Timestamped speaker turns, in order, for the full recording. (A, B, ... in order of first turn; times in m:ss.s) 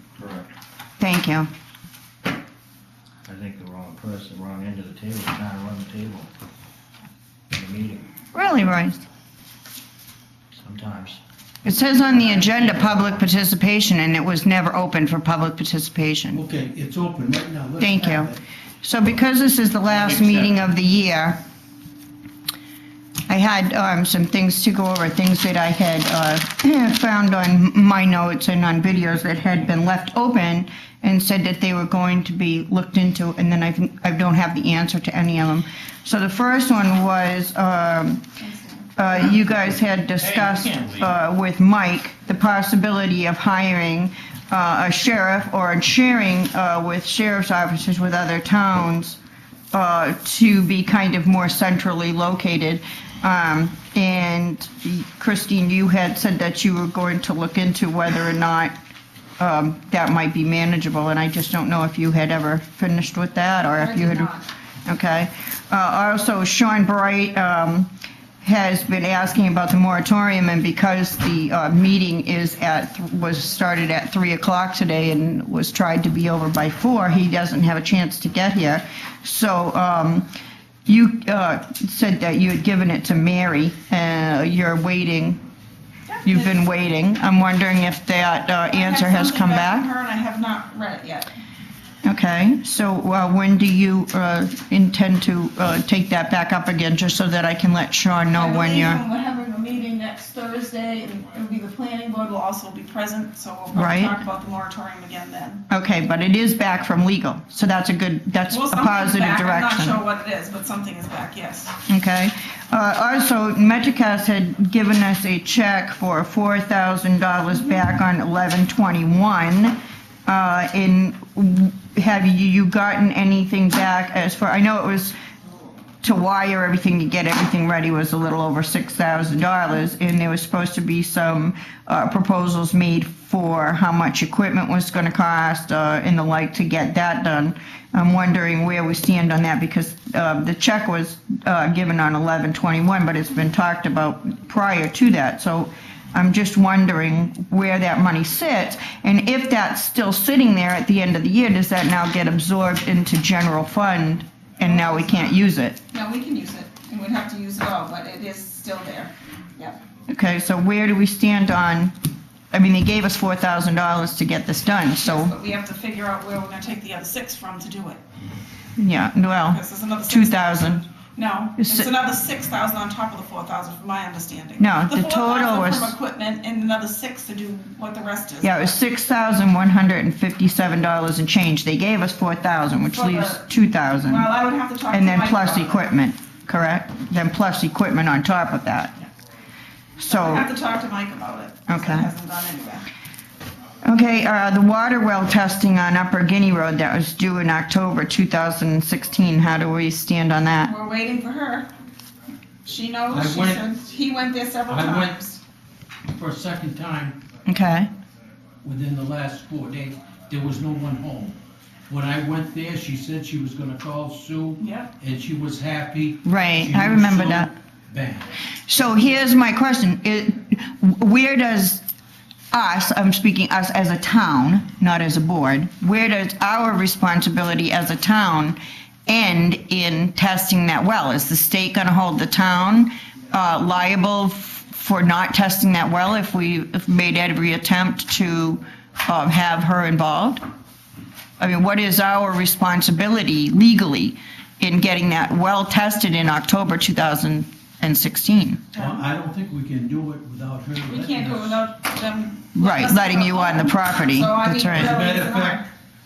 0:00.2-0:00.5 A
0:01.0-0:01.5 B
0:03.2-0:06.3 A
0:07.5-0:08.1 A
0:08.3-0:09.0 B
0:10.5-0:11.2 A
0:11.6-0:16.4 B
0:12.2-0:13.2 A
0:16.3-0:18.4 C
0:17.8-0:18.3 B
0:18.8-0:21.4 B
0:20.1-0:20.5 C
0:23.3-0:38.2 B
0:38.4-0:38.9 D
0:39.0-0:49.2 B
0:40.2-0:41.1 C
0:49.7-0:58.7 B
0:59.4-1:04.3 B
1:03.8-1:04.5 D
1:04.9-1:07.9 B
1:08.4-1:20.3 B
1:20.9-1:25.4 B
1:26.1-1:26.5 D
1:26.2-1:29.9 B
1:28.7-1:31.3 D
1:32.0-1:39.0 B
1:38.3-1:45.6 D
1:43.7-1:44.2 B
1:45.7-1:50.0 B
1:48.5-1:51.8 D
1:51.9-2:05.1 B
2:06.0-2:35.8 B
2:34.6-2:35.3 D
2:35.9-2:39.8 D
2:40.1-2:41.9 B
2:42.5-2:45.3 B
2:45.0-2:48.0 D
2:48.8-2:50.8 B
2:49.5-2:58.6 D
2:51.6-2:51.9 B
2:54.6-2:55.9 B
2:58.4-3:04.3 B
3:02.8-3:03.4 D
3:04.0-3:05.8 D
3:04.9-3:08.9 B
3:10.0-3:10.5 B
3:10.1-3:12.9 D
3:11.7-3:12.1 B
3:13.8-3:20.7 B
3:20.6-3:21.7 D
3:22.6-3:25.4 D
3:23.1-3:23.7 C
3:24.7-3:25.2 C
3:26.1-3:27.2 C
3:27.5-3:27.9 B
3:28.6-3:31.4 C
3:31.9-3:38.3 C
3:34.6-3:34.9 D
3:36.2-3:37.5 B
3:38.7-3:41.8 B
3:42.5-4:00.4 B
4:01.4-4:08.7 B
4:08.7-4:09.0 D
4:08.8-4:11.6 C
4:10.8-4:15.6 D
4:12.6-4:15.0 B
4:14.7-4:15.7 C